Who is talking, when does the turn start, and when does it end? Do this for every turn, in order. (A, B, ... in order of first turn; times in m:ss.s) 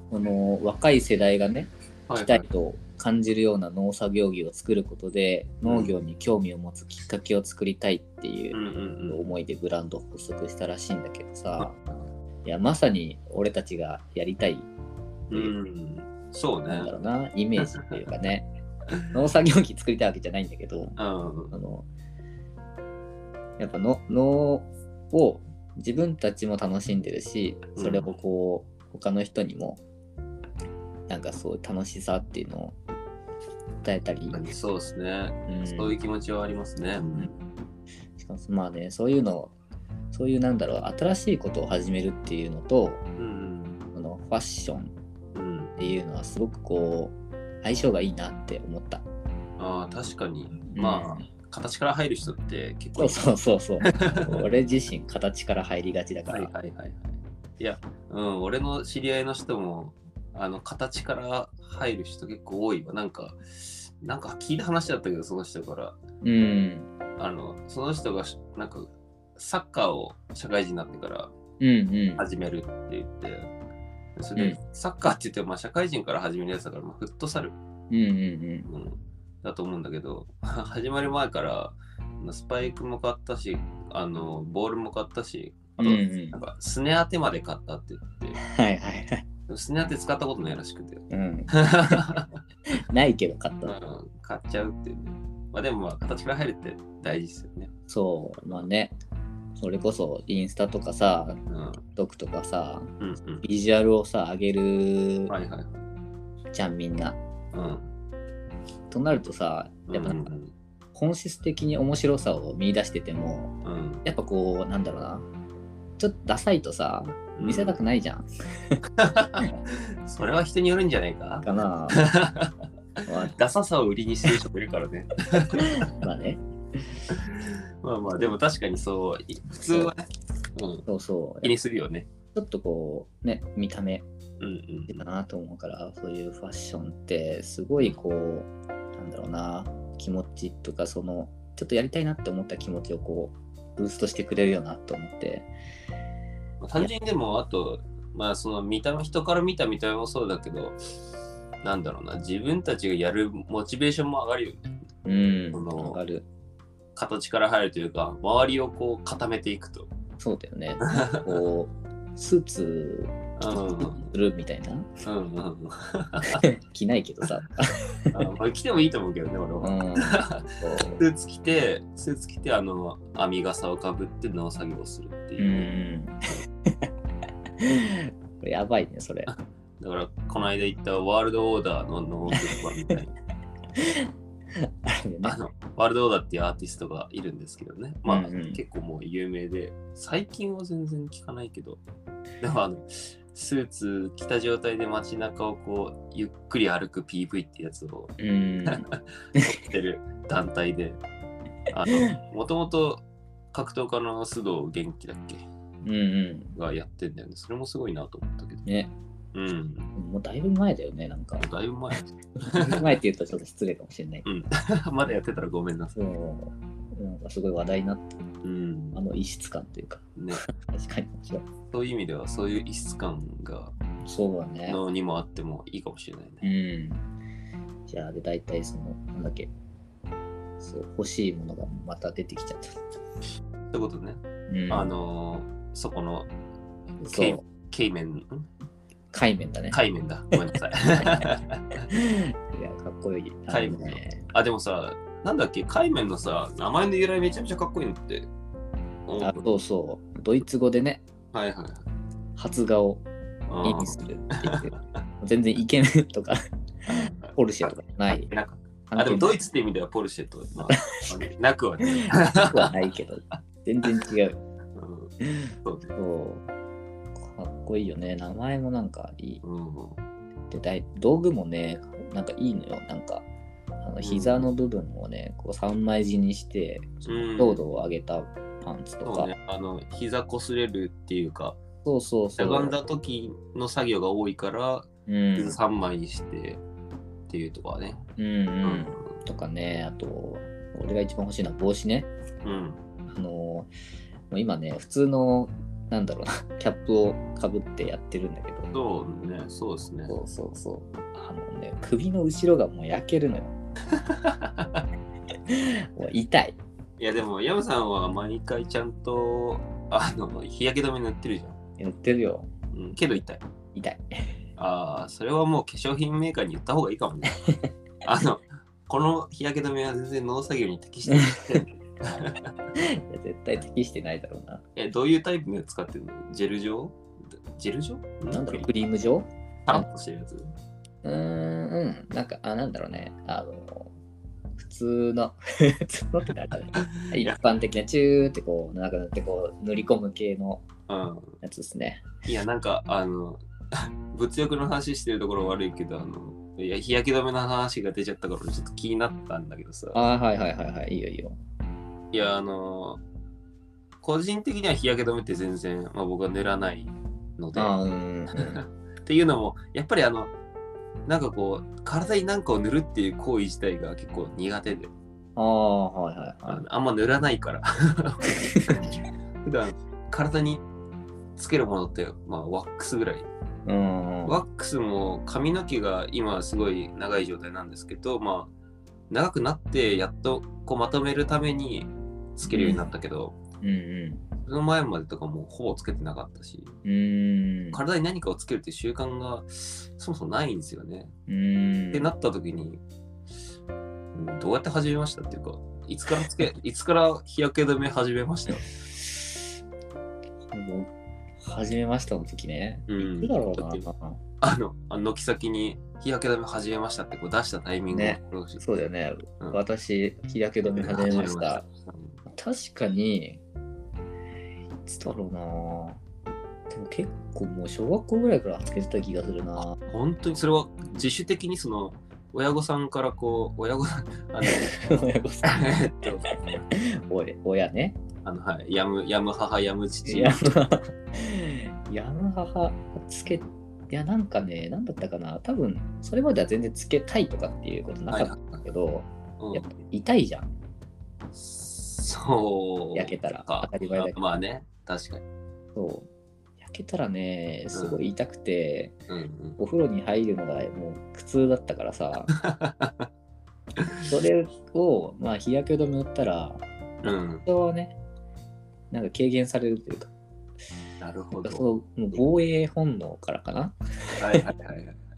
0:00.1-0:14.7 A
0:02.1-0:02.4 B
0:05.6-0:05.9 B
0:08.5-0:09.2 B
0:15.3-0:16.9 B
0:16.7-0:18.5 A
0:19.1-0:21.0 A
0:21.0-0:21.6 B
0:21.5-0:21.9 A
0:23.6-0:29.8 A
0:27.8-0:28.1 B
0:31.1-0:32.8 A
0:33.8-0:34.4 A
0:34.3-0:37.3 B
0:35.5-0:36.0 A
0:37.0-0:37.3 A
0:38.2-0:39.5 A
0:40.1-0:43.0 A
0:43.2-0:43.8 B
0:43.9-0:44.9 A
0:45.3-0:45.7 B
0:45.8-0:49.0 A
0:49.6-0:53.2 B
0:50.7-0:51.3 A
0:53.0-0:56.5 A
0:53.8-0:54.5 B
0:56.3-1:06.0 B
1:06.2-1:06.9 A
1:07.2-1:11.3 B
1:11.6-1:12.2 A
1:12.2-1:13.5 B
1:14.2-1:17.6 B
1:17.9-1:18.7 A
1:18.7-1:28.4 B
1:25.8-1:26.4 A
1:28.4-1:29.2 A
1:29.5-1:32.4 B
1:31.1-1:32.2 A
1:32.7-1:33.8 A
1:33.6-1:37.7 B
1:37.9-1:39.0 A
1:39.6-1:41.4 A
1:41.5-1:41.8 B
1:41.9-1:42.9 A
1:43.0-1:43.4 B
1:43.4-1:45.3 A
1:45.3-1:45.8 B
1:46.5-1:47.2 A
1:47.5-1:47.9 B
1:48.9-1:50.3 A
1:49.9-1:50.5 B
1:50.9-1:55.3 A
1:53.6-1:54.0 B
1:56.0-1:58.8 A
1:57.4-1:57.8 B
1:59.0-2:05.9 B
2:01.4-2:02.0 A
2:03.0-2:03.3 A
2:05.6-2:06.8 A
2:07.1-2:10.8 B
2:09.7-2:09.9 A
2:10.9-2:11.5 A
2:11.4-2:12.1 B
2:12.3-2:14.0 A
2:14.4-2:15.0 B
2:14.9-2:25.5 A
2:26.6-2:30.8 B
2:31.6-2:34.6 B
2:35.0-2:36.3 A
2:35.5-2:36.0 B
2:37.0-2:39.9 B
2:40.2-2:44.9 A
2:40.9-2:41.3 B
2:43.4-2:44.1 B
2:45.0-2:46.4 B
2:46.4-2:48.2 A
2:48.1-2:55.7 B
2:49.6-2:51.0 A
2:55.4-2:56.9 A
2:57.6-2:59.3 A
2:59.3-3:03.1 B
3:02.3-3:02.6 A
3:03.8-3:05.4 A
3:05.2-3:11.8 B
3:08.0-3:08.6 A
3:12.4-3:18.1 B
3:18.2-3:19.5 A
3:18.7-3:21.0 B
3:21.7-3:25.4 B
3:21.9-3:22.2 A
3:25.8-3:26.5 A
3:26.6-3:28.6 B
3:28.6-3:28.9 A
3:29.3-3:29.9 B
3:30.0-3:31.5 A
3:31.4-3:32.9 B
3:32.4-3:34.2 A
3:34.2-3:35.9 B
3:35.9-3:38.2 A
3:38.4-3:39.0 B
3:38.9-3:41.4 A
3:40.2-3:40.4 B
3:41.7-3:43.7 B
3:44.0-3:44.8 A
3:44.7-3:46.4 B
3:46.4-3:47.1 A
3:47.9-3:49.5 A
3:50.6-3:52.7 A
3:53.7-3:56.3 B
3:54.5-3:54.9 A
3:57.0-3:57.4 A
3:57.1-3:58.5 B
3:59.1-3:59.8 A
3:59.7-4:01.9 B
4:01.0-4:01.3 A
4:01.9-4:04.3 A
4:03.5-4:08.3 B
4:09.1-4:09.5 B
4:09.2-4:11.0 A
4:11.3-4:11.8 B
4:12.4-4:13.0 A
4:13.5-4:14.8 B
4:13.6-4:16.4 A
4:16.9-4:17.3 B
4:16.9-4:18.3 A
4:18.3-4:22.7 B
4:18.9-4:19.5 A
4:20.8-4:21.1 A
4:21.8-4:24.4 A
4:24.7-4:25.9 B
4:25.2-4:26.4 A
4:27.2-4:29.4 A
4:29.4-4:30.0 B
4:30.5-4:33.2 A
4:33.8-4:39.3 A
4:34.0-4:34.5 B
4:37.0-4:37.6 B
4:39.0-4:41.6 B
4:41.8-4:42.8 A
4:42.4-4:46.6 B
4:45.1-4:45.6 A
4:47.3-4:48.0 B
4:48.2-4:52.1 A
4:48.6-4:49.0 B
4:52.4-4:52.8 B
4:53.1-4:53.7 A
4:54.3-4:58.7 A
4:58.7-5:00.1 B
5:00.1-5:03.5 A
5:03.9-5:04.8 B
5:05.5-5:06.6 A
5:07.0-5:11.6 B
5:11.8-5:12.5 A
5:12.7-5:13.4 B
5:13.7-5:14.3 A
5:14.6-5:17.4 B
5:17.3-5:17.6 A
5:18.0-5:22.5 B
5:21.1-5:21.6 A
5:22.8-5:24.6 A
5:24.8-5:28.7 B
5:28.3-5:29.9 A
5:29.6-5:30.5 B
5:31.0-5:33.9 A
5:34.6-5:40.6 A
5:36.8-5:37.4 B
5:40.9-5:41.4 B
5:41.4-5:42.1 A
5:42.2-5:50.0 B
5:49.9-5:51.4 A
5:52.1-5:53.0 B
5:54.0-5:57.7 B
5:57.5-5:58.6 A
5:58.3-6:00.3 B
6:01.0-6:04.9 B
6:05.4-6:06.6 A
6:06.5-6:10.6 B
6:08.4-6:08.8 A
6:11.4-6:13.3 B
6:13.6-6:14.4 A
6:14.2-6:18.5 B
6:19.1-6:23.4 B
6:22.4-6:22.9 A
6:23.6-6:24.2 A
6:24.4-6:26.8 B
6:26.8-6:27.8 A
6:27.7-6:31.1 B
6:31.3-6:32.1 A
6:31.9-6:32.8 B
6:34.1-6:38.6 B
6:38.9-6:39.3 A
6:40.5-6:40.9 A
6:41.4-6:44.2 A
6:42.9-6:43.8 B
6:44.4-6:48.6 B
6:47.9-6:51.6 A
6:50.7-6:52.2 B
6:52.3-6:53.4 A
6:54.8-6:56.0 A
6:56.7-6:59.8 A
6:59.8-7:04.8 B
7:04.4-7:08.0 A
7:05.4-7:06.3 B
7:08.2-7:10.4 B
7:10.0-7:20.5 A
7:18.1-7:18.6 B
7:19.4-7:19.7 B
7:21.3-7:25.2 B
7:22.9-7:24.2 A
7:25.7-7:26.1 A
7:26.6-7:29.0 A
7:27.7-7:28.0 B
7:29.1-7:29.6 B
7:29.6-7:32.3 A
7:32.3-7:33.1 B
7:33.8-7:34.1 B
7:34.0-7:36.6 A
7:37.0-7:37.4 B
7:37.4-7:38.0 A
7:38.9-7:40.1 A
7:41.0-7:41.6 B
7:41.4-7:44.4 A
7:44.2-7:45.0 B